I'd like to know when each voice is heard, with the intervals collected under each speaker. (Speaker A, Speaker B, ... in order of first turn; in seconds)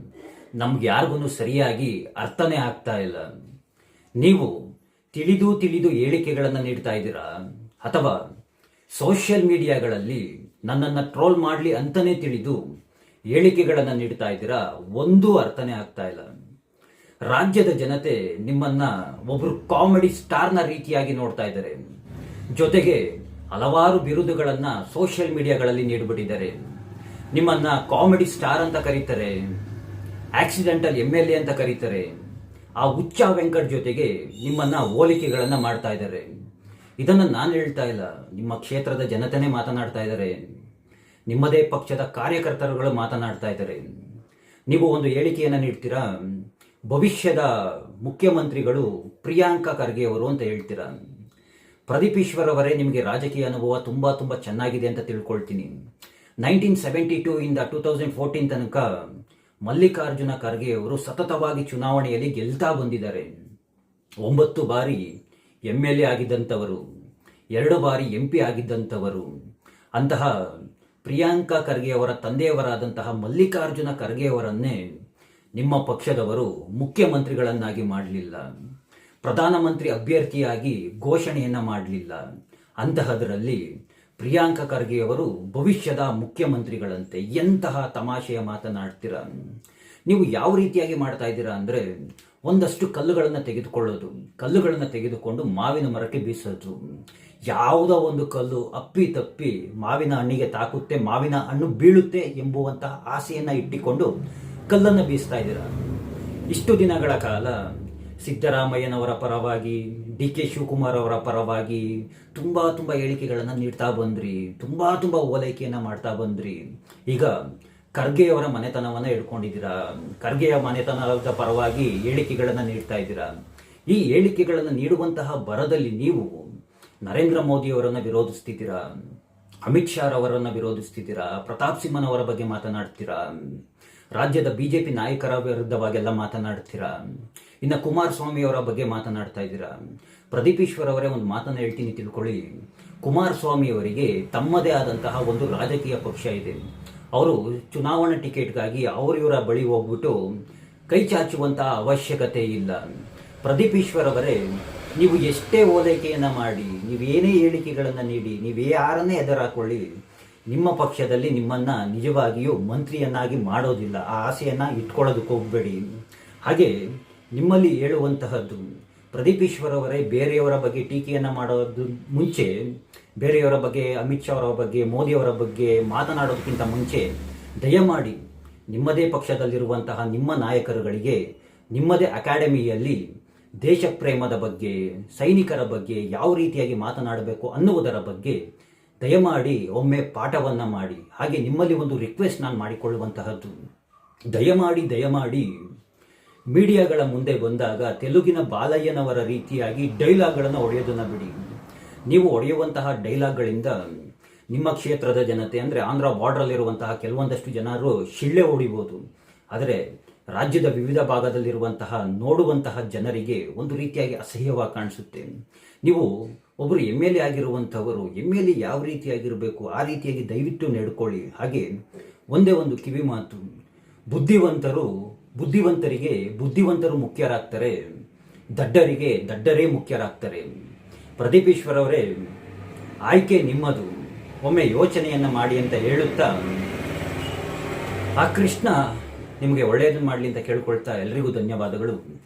Speaker A: 0.6-3.2, 4.2-4.5, 5.2-7.3, 7.8-8.1, 9.0-12.6, 13.3-16.3, 17.3-21.8, 22.6-26.6, 27.3-29.4, 30.4-32.1, 32.8-36.3, 37.0-40.4, 41.3-43.9, 44.7-46.4, 46.9-51.0, 51.9-55.7, 56.4-58.8, 59.7-63.3, 64.2-65.1, 65.7-66.8, 67.6-69.2, 70.0-70.3, 71.0-74.8, 75.6-78.5, 79.2-82.2, 82.8-83.6, 84.2-89.3, 90.1-91.8, 92.5-96.8, 97.5-104.1, 104.7-105.7, 106.5-107.5, 108.2-117.3, 118.0-123.3, 123.9-126.5, 127.0-128.8, 129.7-133.6, 134.2-137.0, 137.6-139.8, 140.3-142.5, 143.0-146.6, 147.2-150.2, 150.9-152.8, 153.4-154.4, 155.0-159.8, 160.5-165.8, 166.5-166.7, 167.4-172.5, 173.2-177.1, 177.6-178.2, 178.7-181.2, 181.7-183.0, 183.6-188.4, 189.0-193.6, 194.3-195.5, 196.5-201.3, 202.1-203.7, 204.5-209.0, 209.5-209.8, 210.3-215.3, 216.6-221.7, 222.3-223.4, 224.1-227.7, 228.6-230.5, 231.2-232.0, 233.1-236.3, 238.2-238.8, 239.4-242.0